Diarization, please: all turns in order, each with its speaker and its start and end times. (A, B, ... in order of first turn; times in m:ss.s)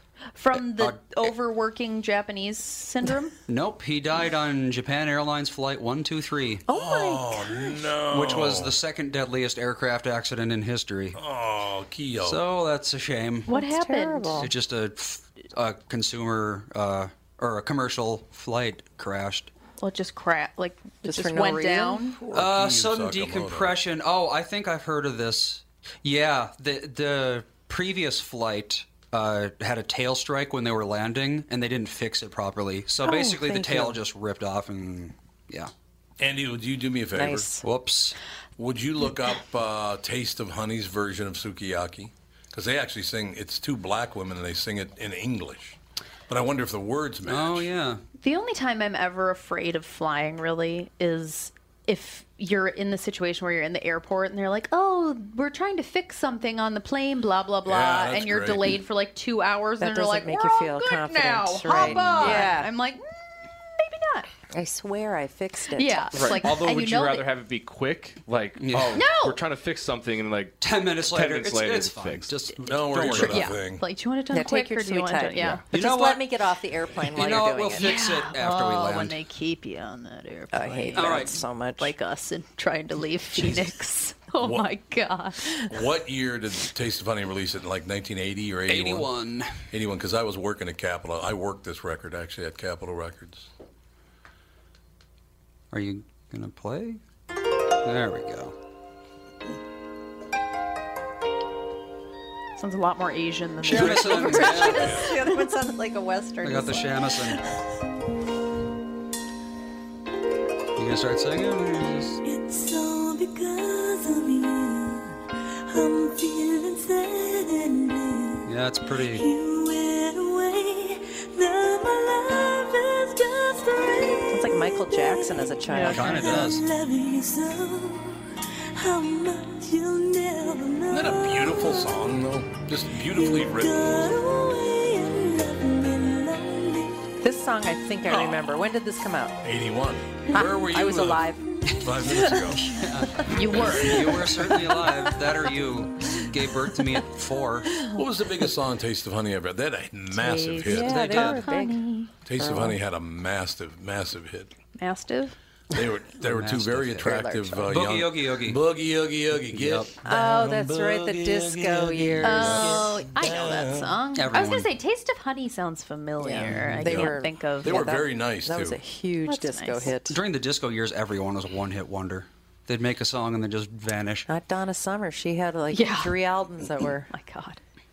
0:00.4-0:03.4 A
0:00.5-0:01.0 B
0:03.5-0:06.6 B
0:06.7-0:07.9 C
0:06.7-0:08.7 D
0:08.1-0:11.2 B
0:11.2-0:12.4 D
0:12.2-0:13.5 B
0:13.5-0:14.5 A
0:13.5-0:14.5 C
0:14.4-0:19.5 B
0:19.8-0:22.2 A
0:21.0-0:22.1 C
0:22.2-0:23.7 D
0:22.3-0:35.7 B
0:33.0-0:34.0 C
0:36.2-0:37.5 D
0:37.2-0:37.6 C
0:37.6-0:38.2 B
0:38.6-0:45.8 D
0:46.3-0:47.7 D
0:47.3-0:48.0 B
0:48.2-1:04.3 A
0:57.7-0:58.8 D
0:59.8-1:02.7 C
1:01.7-1:02.5 B
1:04.5-1:06.4 C
1:05.8-1:07.3 A
1:06.1-1:12.4 E
1:08.6-1:09.0 B
1:08.9-1:09.4 A
1:10.6-1:13.4 B
1:12.7-1:13.8 D
1:12.9-1:13.3 E
1:13.2-1:15.6 A
1:14.3-1:18.0 C
1:15.7-1:16.3 B
1:17.0-1:19.2 B
1:17.8-1:25.7 A
1:20.5-1:21.9 C
1:21.0-1:21.3 B
1:24.4-1:24.7 D
1:25.7-1:29.1 D
1:28.7-1:29.6 B
1:29.7-1:33.5 D
1:35.7-1:37.0 B
1:37.8-1:38.5 B
1:42.6-1:44.8 A
1:43.6-1:44.9 B
1:43.6-1:47.4 C
1:44.7-1:45.1 D
1:46.4-1:47.4 B
1:50.8-1:52.2 B
1:52.2-2:12.0 F
1:58.4-1:59.3 B
2:04.3-2:06.5 C
2:05.8-2:06.7 B
2:10.9-2:14.1 D
2:13.0-2:17.2 F
2:17.2-2:19.4 C
2:18.1-2:18.5 D
2:19.4-2:22.7 D
2:20.3-2:21.6 C
2:22.7-2:27.8 B
2:23.3-2:24.1 A
2:28.0-2:31.3 D
2:30.2-2:32.1 A
2:30.6-2:31.8 C
2:30.8-2:31.5 B
2:32.2-2:34.5 D
2:32.4-2:32.8 C
2:34.8-2:35.4 A
2:35.7-2:43.9 D
2:36.2-2:38.6 B
2:37.0-2:37.7 C
2:39.5-2:39.9 B
2:40.0-2:42.9 C
2:42.2-2:48.0 A
2:44.2-2:44.7 B
2:46.2-2:50.2 C
2:46.8-2:48.8 D
2:49.3-2:49.9 A
2:50.1-2:54.3 B
2:54.3-2:57.1 C
2:55.7-2:56.2 A
2:57.1-2:57.6 A